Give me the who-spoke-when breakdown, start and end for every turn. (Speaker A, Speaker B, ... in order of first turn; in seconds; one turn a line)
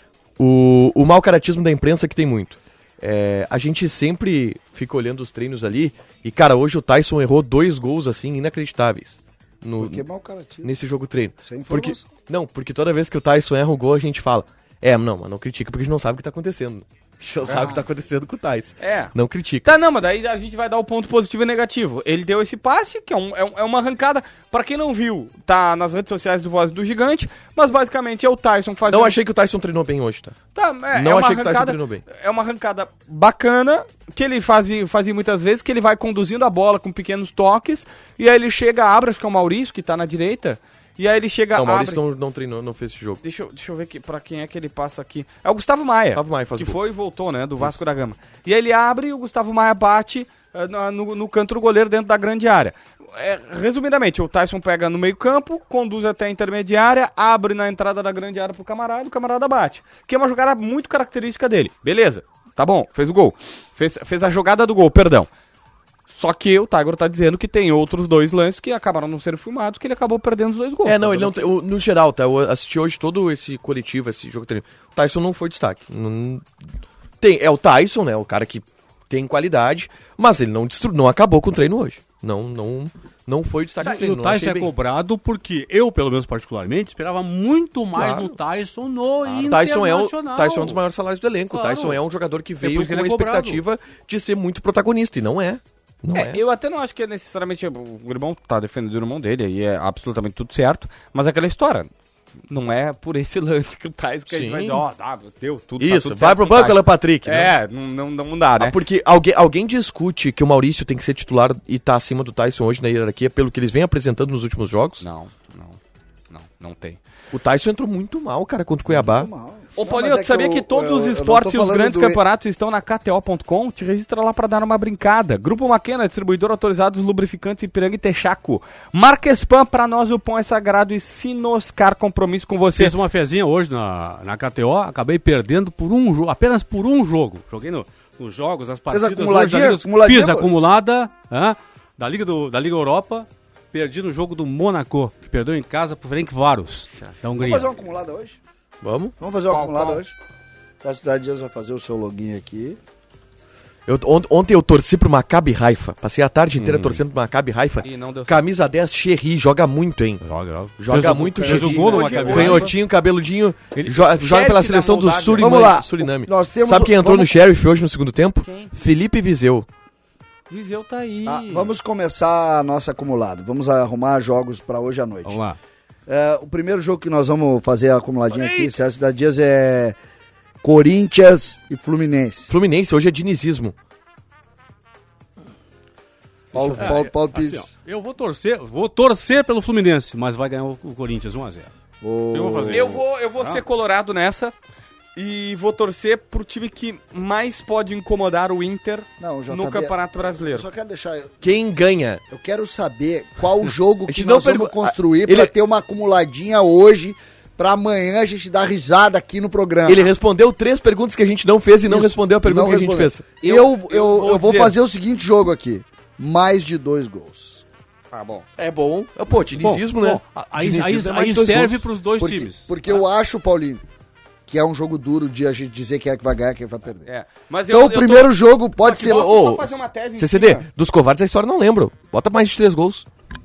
Speaker A: 0.4-10.0
Speaker B: 9.8-10.7
Speaker A: 10.6-19.7
Speaker B: 11.4-12.1
Speaker B: 17.4-17.9
Speaker C: 18.8-19.1
Speaker C: 19.6-29.2
Speaker A: 28.9-30.4
Speaker C: 30.6-42.0
Speaker A: 30.9-32.0
Speaker A: 41.5-43.2
Speaker C: 43.2-65.3
Speaker A: 46.1-46.8
Speaker C: 66.1-71.5
Speaker A: 70.8-76.5
Speaker A: 77.2-84.7
Speaker D: 83.8-90.8
Speaker A: 88.0-88.4
Speaker A: 89.5-96.4
Speaker D: 91.5-92.0
Speaker D: 92.6-93.6
Speaker C: 96.1-101.9
Speaker C: 102.5-108.8
Speaker A: 104.3-104.8
Speaker A: 105.8-107.5
Speaker A: 108.6-115.0
Speaker C: 115.0-115.8
Speaker C: 116.3-117.0
Speaker A: 117.3-119.3
Speaker B: 118.9-122.2
Speaker C: 119.8-132.9
Speaker D: 132.8-147.7
Speaker B: 138.9-140.5
Speaker B: 147.4-148.4
Speaker A: 148.8-149.1
Speaker B: 149.2-150.2
Speaker C: 149.5-150.0
Speaker B: 150.8-152.8
Speaker A: 153.9-160.2
Speaker D: 156.6-157.0
Speaker C: 157.8-158.4
Speaker D: 160.2-162.7
Speaker A: 160.8-169.7
Speaker B: 161.4-162.6
Speaker C: 161.4-162.7
Speaker C: 163.8-165.7
Speaker B: 165.4-167.4
Speaker C: 168.4-168.7
Speaker C: 170.5-171.7
Speaker B: 171.3-175.4
Speaker D: 175.2-175.6
Speaker B: 176.1-180.0
Speaker B: 180.6-182.5
Speaker A: 182.5-183.8
Speaker B: 186.5-187.7
Speaker D: 186.7-191.7
Speaker B: 192.0-193.0
Speaker D: 192.3-193.6
Speaker C: 192.7-194.5
Speaker C: 195.2-200.7
Speaker B: 199.2-201.5
Speaker A: 201.4-202.2
Speaker B: 202.3-210.1
Speaker A: 204.1-205.5
Speaker A: 209.9-213.3
Speaker B: 211.8-217.6
Speaker C: 213.4-214.8
Speaker C: 218.1-218.5
Speaker A: 218.6-221.8
Speaker D: 219.6-223.0
Speaker B: 222.2-223.8
Speaker B: 224.5-227.1
Speaker C: 227.1-230.7
Speaker B: 227.7-229.3
Speaker A: 228.8-233.1